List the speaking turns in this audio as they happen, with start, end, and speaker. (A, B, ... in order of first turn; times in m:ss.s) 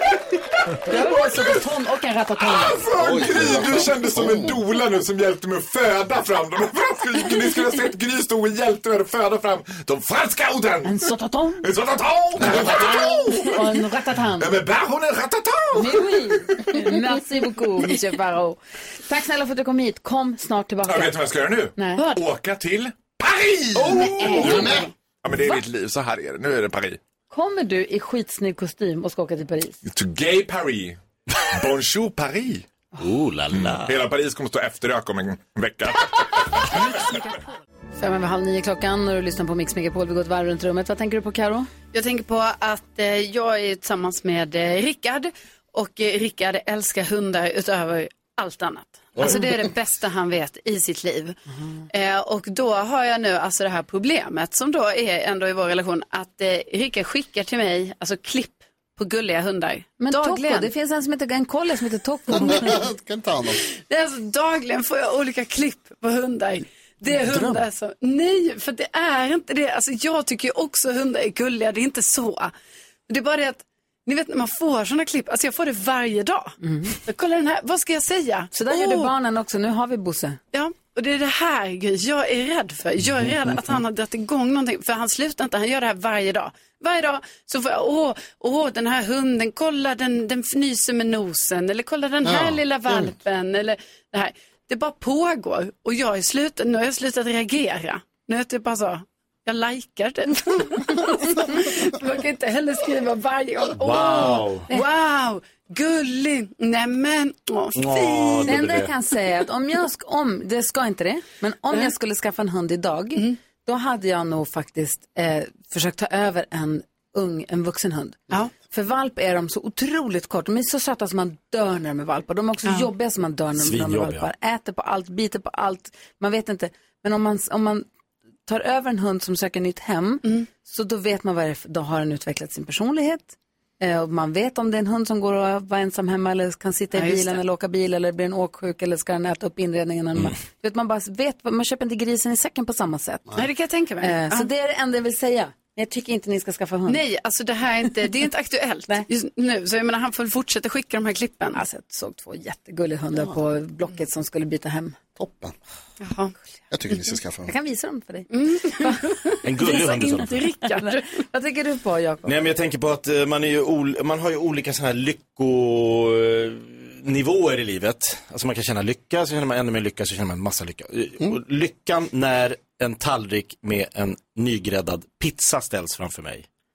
0:00.8-0:02.8 A
0:00.8-0:01.6 B
0:02.4-0:11.0 B
0:03.0-0:04.6 C
0:10.8-0:11.6 A
0:11.6-0:16.9 B
0:12.4-0:14.5 A
0:15.7-0:21.2 A
0:20.8-0:27.0 B
0:21.8-0:22.0 A
0:23.9-0:24.9 D
0:24.3-0:24.6 A
0:27.3-0:29.8 A
0:29.8-0:32.7 B
0:33.0-0:34.0 E
0:33.5-0:37.3 B
0:38.0-0:41.7 A
0:41.9-0:51.4 D
0:49.2-0:49.4 E
0:51.9-1:00.7 D
1:00.0-1:02.8 A
1:02.3-1:03.6 C
1:03.8-1:12.5 D
1:07.2-1:07.6 C
1:13.1-1:19.1 D
1:16.6-1:17.0 A
1:18.5-1:20.4 A
1:20.5-1:48.5 D
1:32.2-1:33.1 C
1:43.8-1:44.6 E
1:47.8-1:48.9 E
1:48.4-2:07.8 A
2:03.6-2:04.3 E
2:08.4-2:23.4 A
2:16.9-2:17.4 D
2:23.4-2:24.5 D
2:24.0-2:27.0 A
2:26.9-2:31.6 D
2:31.5-2:35.0 A
2:35.2-2:35.5 C
2:36.0-2:36.3 D
2:36.7-2:37.5 C
2:37.5-2:39.0 A
2:38.3-2:41.0 D
2:39.4-2:40.4 E
2:40.6-2:42.4 A
2:42.2-2:56.4 E